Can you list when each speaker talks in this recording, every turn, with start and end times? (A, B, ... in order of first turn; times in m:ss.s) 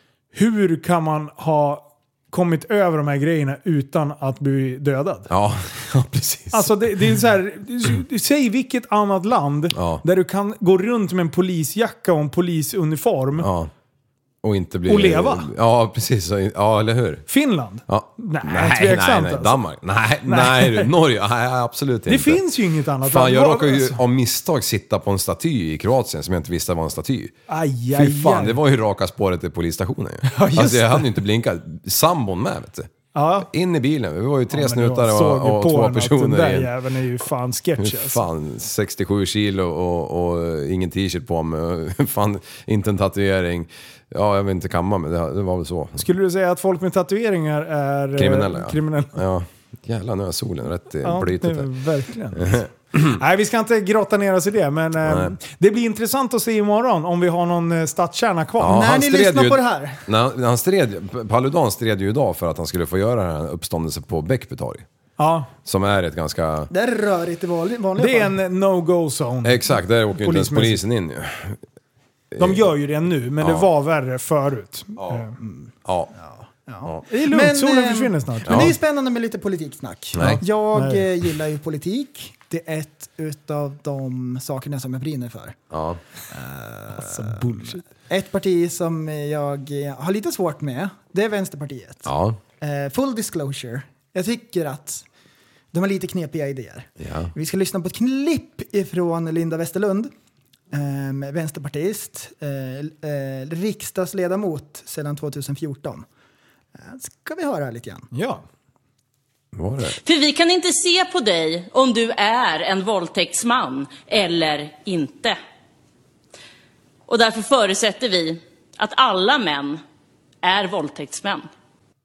0:00.3-0:05.3 A
0:05.3-0:06.8 B
0:06.5-0:13.5 A
0:09.7-0:10.0 B
0:13.4-0:13.7 B
0:14.4-0:17.2 B
0:14.9-0:15.5 A
0:17.3-0:19.6 A
0:17.9-0:22.4 B
0:20.2-0:20.9 A
0:22.1-0:24.0 A
0:23.0-0:27.4 B
0:27.5-0:28.6 A
0:27.9-0:36.7 B
0:30.2-0:31.2 A
0:33.1-0:33.5 A
0:34.5-0:38.2 A
0:37.8-0:46.1 B
0:46.0-0:49.2 A
0:48.2-0:51.7 B
0:51.0-0:58.8 A
0:52.4-0:53.2 B
0:55.0-0:55.4 B
0:58.6-1:04.9 B
0:58.6-1:00.0 C
1:05.2-1:05.5 A
1:05.6-1:06.7 B
1:06.7-1:08.3 C
1:08.0-1:10.8 A
1:09.4-1:11.6 B
1:12.3-1:12.6 B
1:12.4-1:15.3 A
1:13.4-1:13.7 B
1:15.0-1:15.2 B
1:15.4-1:25.6 C
1:15.8-1:16.1 B
1:17.1-1:18.8 A
1:18.5-1:18.7 B
1:20.2-1:20.4 B
1:20.2-1:21.1 A
1:25.7-1:26.0 B
1:26.3-1:35.0 C
1:27.0-1:27.8 A
1:32.1-1:32.4 B
1:35.7-1:40.1 C
1:37.0-1:37.3 B
1:40.7-1:46.1 C
1:46.8-1:48.1 C
1:48.1-1:48.4 A
1:49.5-1:50.0 B
1:50.0-1:55.4 D
1:57.1-1:59.8 D
2:00.4-2:01.5 D